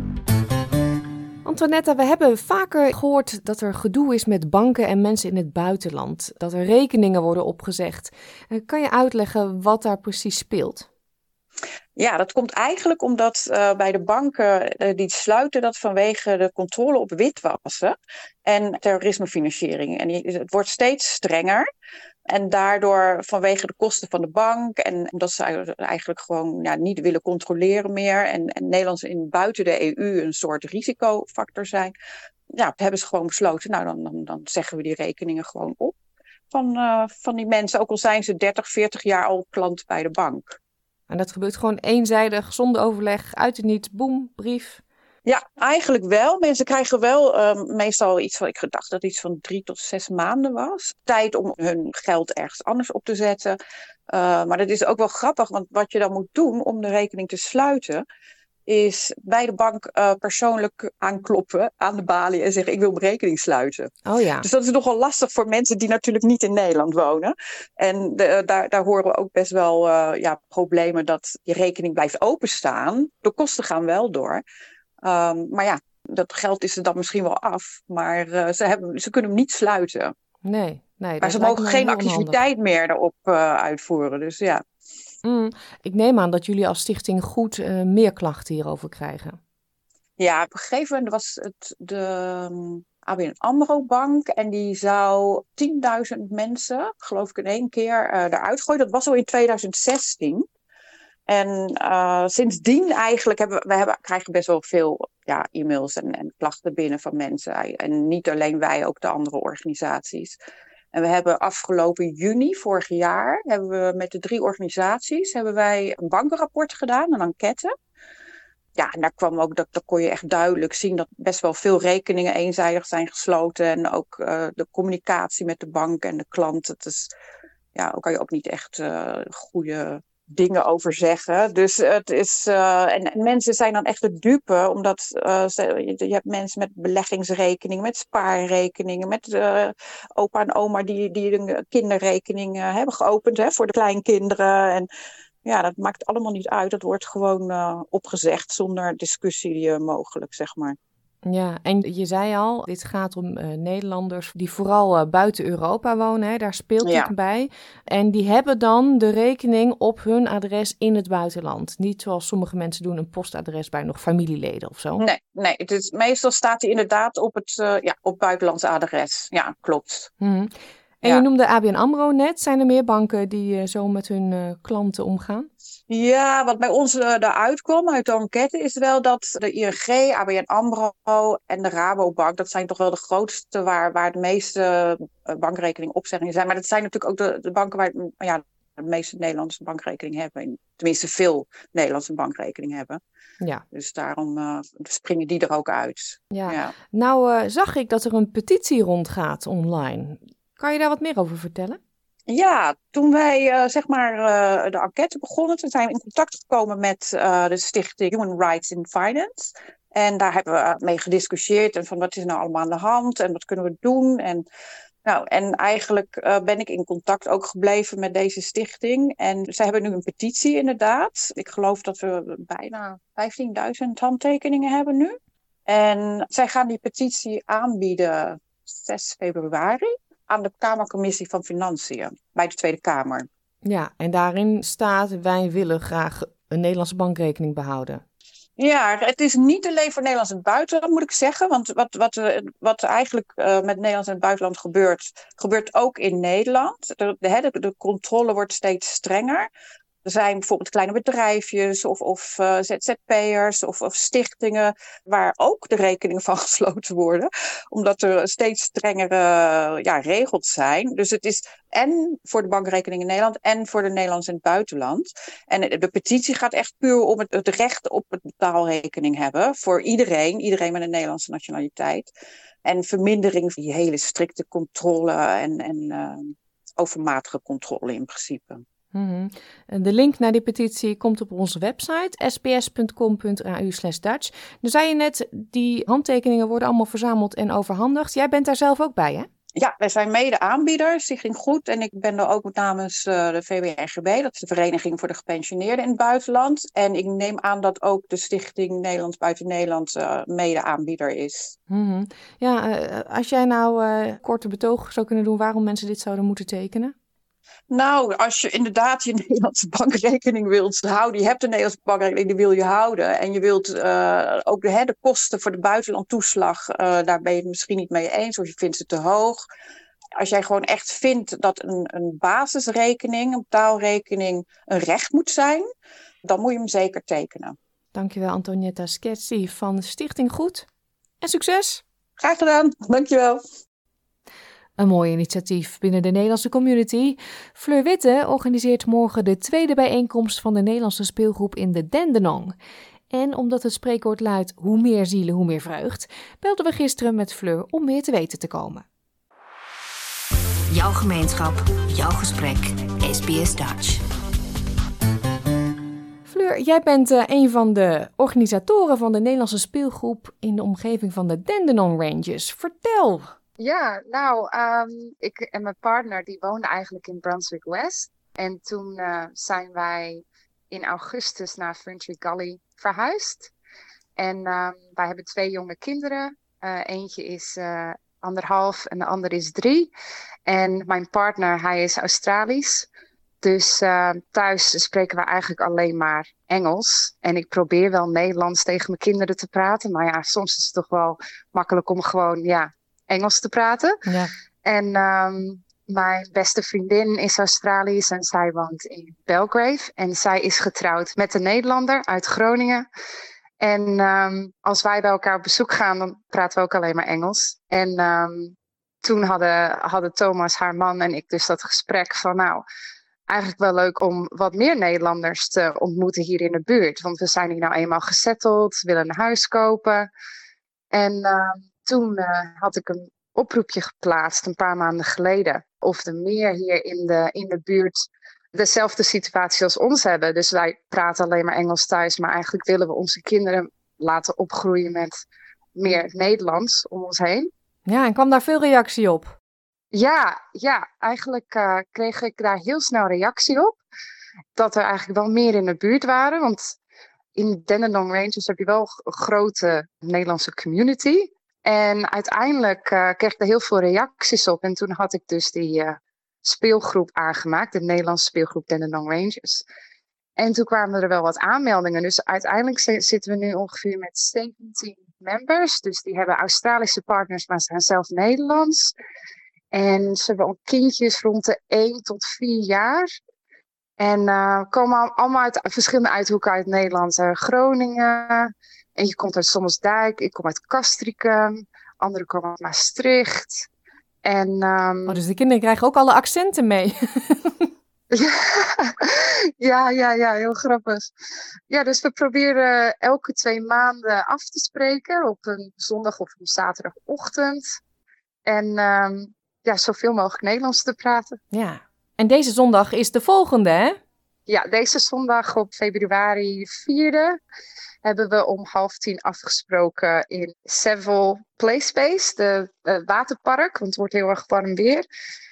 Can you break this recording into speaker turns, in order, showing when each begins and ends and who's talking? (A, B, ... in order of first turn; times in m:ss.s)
0:01.4-0:10.9 A
0:12.0-0:21.7 B
0:22.3-0:31.9 B
0:32.5-0:35.9 B
0:36.5-0:40.6 B
0:41.1-0:44.8 A
0:45.2-0:53.6 B
0:54.1-0:58.0 B
0:58.7-1:14.4 B
1:04.0-1:04.4 A
1:15.0-1:20.1 B
1:20.4-1:22.4 A
1:21.2-1:24.6 B
1:25.2-1:29.4 A
1:30.2-1:40.4 B
1:41.3-1:50.4 B
1:50.9-1:57.7 B
1:58.8-2:07.1 B
2:07.8-2:24.9 B
2:25.4-2:30.8 B
2:31.2-2:45.0 A
2:36.8-2:37.1 B
2:45.0-2:50.1 B
2:50.2-2:55.5 A
2:55.9-3:13.0 B
3:13.7-3:16.7 B
3:16.3-3:21.8 A
3:22.3-3:34.5 B
3:35.0-3:45.2 B
3:45.7-3:53.3 B
3:53.6-3:58.0 A
3:58.6-4:09.5 B
4:10.0-4:32.1 B
4:32.6-4:38.6 B
4:38.9-4:49.3 A
4:49.6-5:01.6 B
5:01.7-5:07.0 A
5:07.7-5:19.4 B
5:20.2-5:25.7 B
5:26.2-5:27.6 B
5:27.9-5:30.7 A
5:31.2-5:31.8 A
5:32.2-5:33.4 B
5:34.8-5:42.5 A
5:43.1-5:48.8 A
5:50.7-5:54.0 C
5:56.2-6:03.3 A
6:03.6-6:13.5 D
6:14.2-6:19.9 D
6:20.5-6:22.9 D
6:23.4-6:34.0 D
6:34.0-6:34.3 A
6:34.6-6:42.8 D
6:43.6-6:52.6 D
6:53.3-7:00.1 D
7:00.9-7:15.2 D
7:15.8-7:17.5 D
7:17.9-7:19.4 A
7:19.9-7:23.8 D
7:24.6-7:26.7 D
7:27.4-7:39.6 D
7:40.4-7:48.9 D
7:49.7-7:53.1 D
7:54.0-8:03.6 D
8:04.2-8:05.2 D
8:05.1-8:07.5 A
8:08.1-8:11.1 D
8:11.7-8:17.8 D
8:18.5-8:21.4 D
8:21.5-8:24.0 A
8:24.5-8:27.4 D
8:28.0-8:35.0 D